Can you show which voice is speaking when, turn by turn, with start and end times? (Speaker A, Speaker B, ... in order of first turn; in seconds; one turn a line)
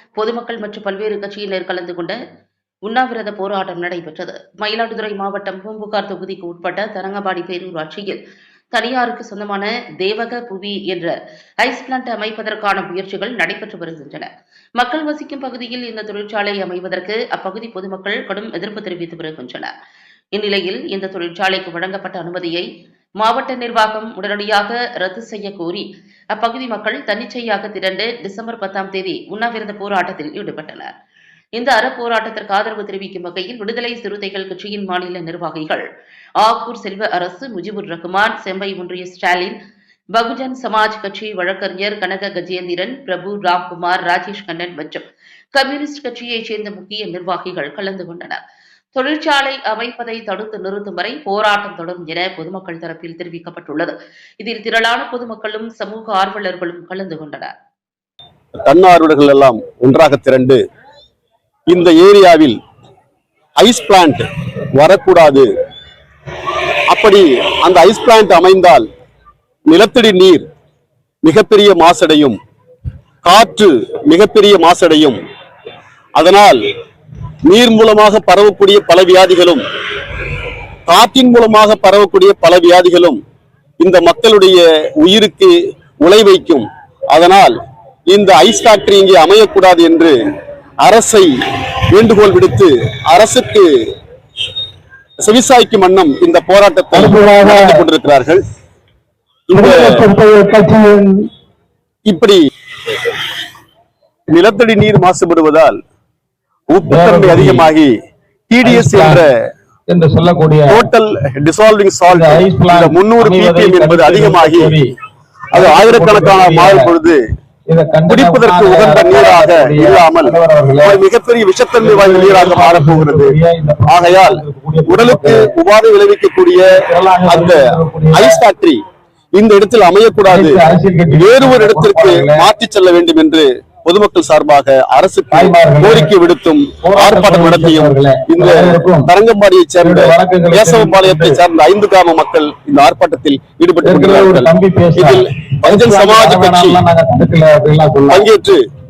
Speaker A: 0.2-2.2
Speaker A: 2.9-8.2
Speaker A: 8.7-14.3
Speaker A: 14.8-19.7
Speaker A: 20.3-22.7
Speaker A: 23.2-30.9
Speaker A: 31.6-35.8
Speaker A: 36.4-39.5
Speaker A: 40.1-45.0
Speaker A: 45.5-48.4
Speaker A: 48.9-57.5
Speaker B: 58.6-60.6
Speaker B: 61.7-62.6
Speaker B: 63.6-64.2
Speaker B: 64.8-65.5
Speaker B: 66.9-68.8
Speaker B: 69.7-70.5
Speaker B: 71.2-72.4
Speaker B: 73.2-75.2
Speaker B: 76.2-76.6
Speaker B: 77.5-79.6
Speaker B: 80.9-83.2
Speaker B: 83.8-87.5
Speaker B: 88.1-90.2
Speaker B: 90.8-91.3
Speaker B: 91.9-93.7
Speaker B: 95.2-98.4
Speaker C: 96.9-97.8
Speaker B: 99.5-100.0
Speaker C: 99.5-101.3
Speaker B: 102.1-102.4
Speaker B: 104.3-105.8
Speaker B: 106.7-107.9
Speaker C: 106.9-107.7
Speaker B: 108.5-109.3
Speaker C: 108.6-109.2
Speaker C: 109.9-110.8
Speaker B: 110.7-114.8
Speaker C: 112.1-114.9
Speaker B: 115.5-117.2
Speaker C: 115.5-116.9
Speaker C: 117.7-121.0
Speaker B: 118.1-123.3
Speaker C: 121.8-125.5
Speaker B: 123.9-126.7
Speaker C: 126.8-128.4
Speaker B: 127.2-128.8
Speaker B: 129.3-130.6
Speaker C: 130.3-132.5
Speaker B: 131.1-146.8
Speaker C: 135.3-136.1
Speaker C: 136.8-139.1
Speaker C: 139.8-141.4
Speaker C: 143.8-148.2
Speaker B: 148.1-148.6